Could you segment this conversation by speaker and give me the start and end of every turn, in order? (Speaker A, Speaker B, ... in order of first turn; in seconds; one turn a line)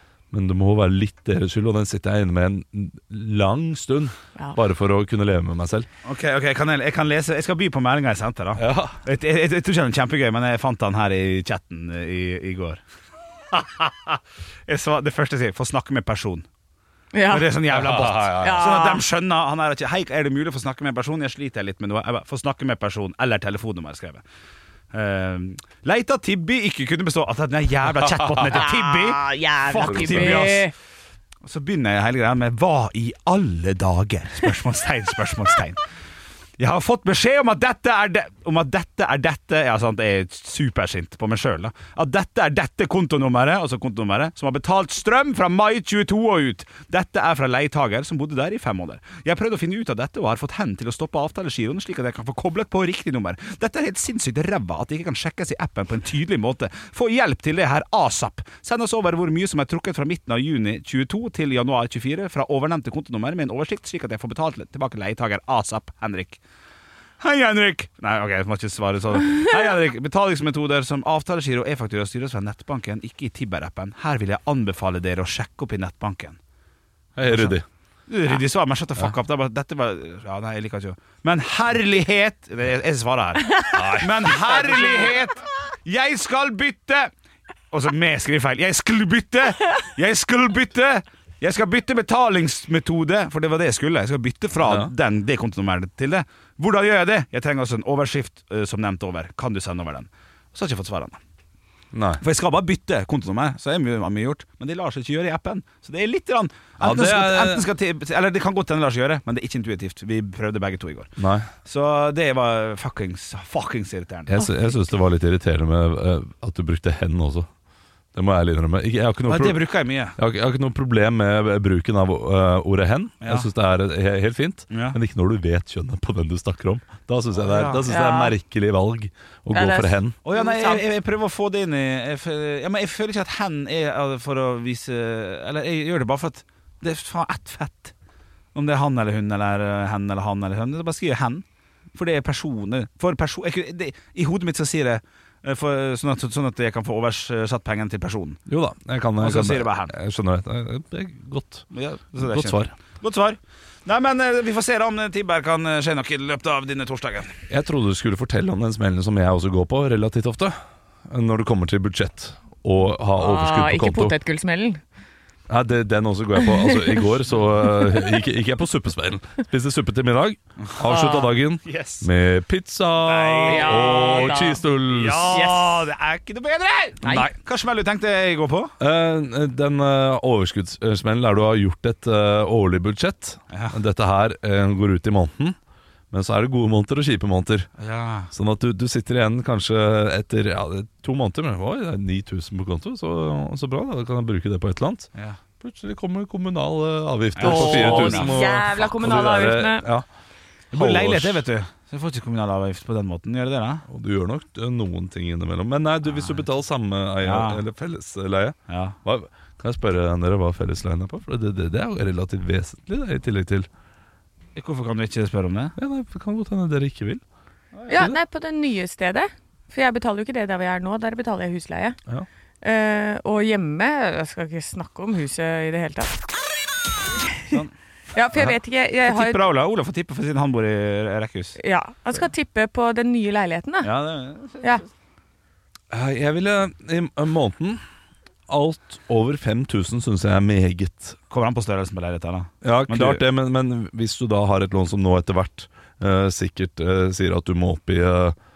Speaker A: 0.3-5.9
Speaker B: 6.0-12.8
Speaker A: 8.6-9.0
Speaker B: 13.5-16.4
Speaker C: 17.1-17.5
Speaker B: 17.3-24.2
Speaker A: 17.7-18.7
Speaker C: 18.3-19.0
Speaker B: 24.9-30.7
Speaker C: 28.5-30.7
Speaker A: 29.8-30.5
Speaker B: 31.4-35.8
Speaker B: 36.6-66.4
Speaker B: 67.2-76.4
Speaker A: 77.2-77.6
Speaker B: 77.2-77.6
Speaker B: 78.1-87.1
Speaker A: 83.7-85.1
Speaker B: 87.7-101.2
Speaker A: 94.6-94.9
Speaker A: 101.9-102.2
Speaker B: 102.2-114.8
Speaker A: 106.8-107.7
Speaker A: 111.2-111.5
Speaker A: 114.3-117.5
Speaker A: 118.1-119.6
Speaker B: 119.3-120.1
Speaker A: 120.2-130.2
Speaker B: 123.2-123.5
Speaker B: 124.7-125.0
Speaker B: 127.4-127.9
Speaker C: 127.9-128.3
Speaker C: 129.5-130.8
Speaker B: 130.2-137.9
Speaker B: 138.5-141.4
Speaker B: 141.9-148.4
Speaker A: 148.5-151.7
Speaker B: 149.2-149.9
Speaker B: 151.7-157.4
Speaker A: 152.2-152.8
Speaker A: 157.5-164.2
Speaker C: 163.2-164.8
Speaker A: 165.5-175.4
Speaker C: 166.5-167.0
Speaker C: 170.8-171.4
Speaker B: 171.6-172.1
Speaker B: 173.0-178.7
Speaker C: 173.4-174.6
Speaker C: 175.3-175.9
Speaker C: 177.0-177.3
Speaker A: 177.1-177.3
Speaker A: 178.8-185.6
Speaker B: 183.5-183.8
Speaker A: 186.1-187.7
Speaker B: 187.8-188.3
Speaker A: 188.3-195.1
Speaker A: 195.6-200.1
Speaker B: 197.3-198.3
Speaker C: 197.4-199.9
Speaker A: 200.7-201.4
Speaker B: 200.7-203.8
Speaker A: 203.9-213.7
Speaker B: 206.1-206.4
Speaker B: 207.2-207.6
Speaker B: 208.7-208.9
Speaker B: 214.5-215.8
Speaker A: 215.8-217.2
Speaker B: 217.8-218.0
Speaker C: 217.9-222.0
Speaker A: 217.9-218.2
Speaker C: 222.6-226.2
Speaker C: 228.1-229.5
Speaker B: 229.1-231.6
Speaker C: 231.6-233.9
Speaker B: 233.8-234.9
Speaker A: 235.9-237.8
Speaker A: 238.5-241.2
Speaker B: 241.3-243.2
Speaker A: 242.6-248.3